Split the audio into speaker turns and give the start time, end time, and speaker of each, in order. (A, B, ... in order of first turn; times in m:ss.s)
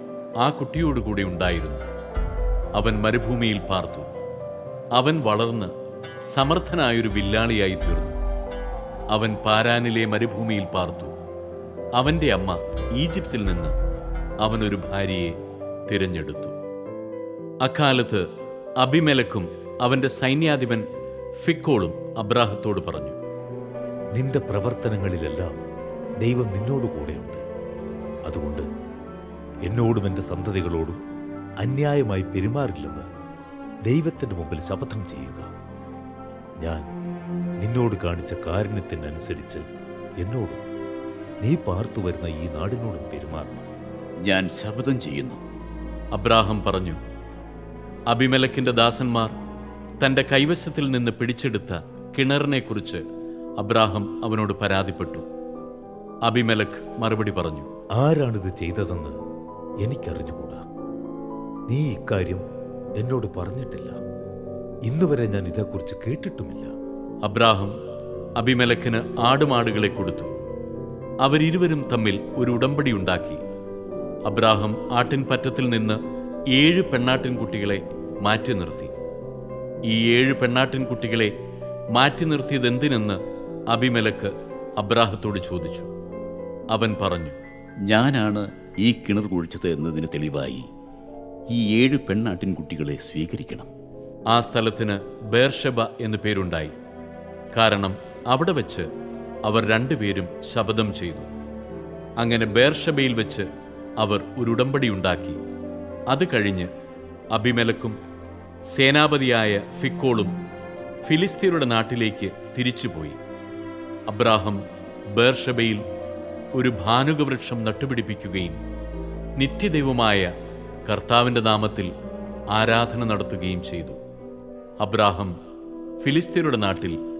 0:00.4-0:01.8 A
0:02.8-0:04.1 A
0:04.9-0:05.7 A
0:06.3-0:08.2 A
0:09.1-0:11.1 A
0:12.0-0:13.7 A
0:14.4-0:15.4 A
0:15.9-0:16.5 A
0:17.6-0:18.2 A
0:18.8-0:20.8 A
0:21.4-0:23.2 A
0:24.1-0:25.6 B
0:26.2-0:27.4 B
0:28.3-0:28.6 B
0:29.6-0:31.0 B
0:31.6-0:33.0 B
0:33.9-0:35.5 B
0:37.6-0:39.6 B
0:40.2-0:40.6 B
0:41.4-0:43.6 B
0:44.2-0:45.4 C
0:46.1-0:47.0 A
0:48.1-0:49.3 A
0:50.0-0:53.0 A
0:53.6-0:55.2 A
0:56.2-0:57.7 A
0:58.0-0:59.2 B
0:59.8-1:00.6 B
1:01.7-1:02.4 B
1:03.0-1:04.0 B
1:04.9-1:06.7 B
1:07.2-1:07.8 A
1:08.4-1:10.3 A
1:11.2-1:13.4 A
1:14.2-1:16.0 A
1:16.5-1:18.9 A
1:19.9-1:21.3 A
1:21.9-1:23.2 A
1:23.7-1:25.9 A
1:26.7-1:27.4 A
1:27.8-1:30.7 C
1:31.5-1:33.7 C
1:34.3-1:36.7 A
1:37.5-1:38.9 A
1:39.4-1:41.3 A
1:42.2-1:43.5 A
1:44.0-1:45.4 A
1:46.1-1:46.7 A
1:47.3-1:48.0 A
1:48.7-1:50.3 A
1:51.0-1:53.2 A
1:54.1-1:54.6 A
1:55.1-1:55.8 A
1:56.5-1:58.6 A
1:59.4-2:00.3 A
2:00.8-2:01.9 A
2:02.5-2:04.0 A
2:04.8-2:05.3 A
2:06.0-2:07.0 A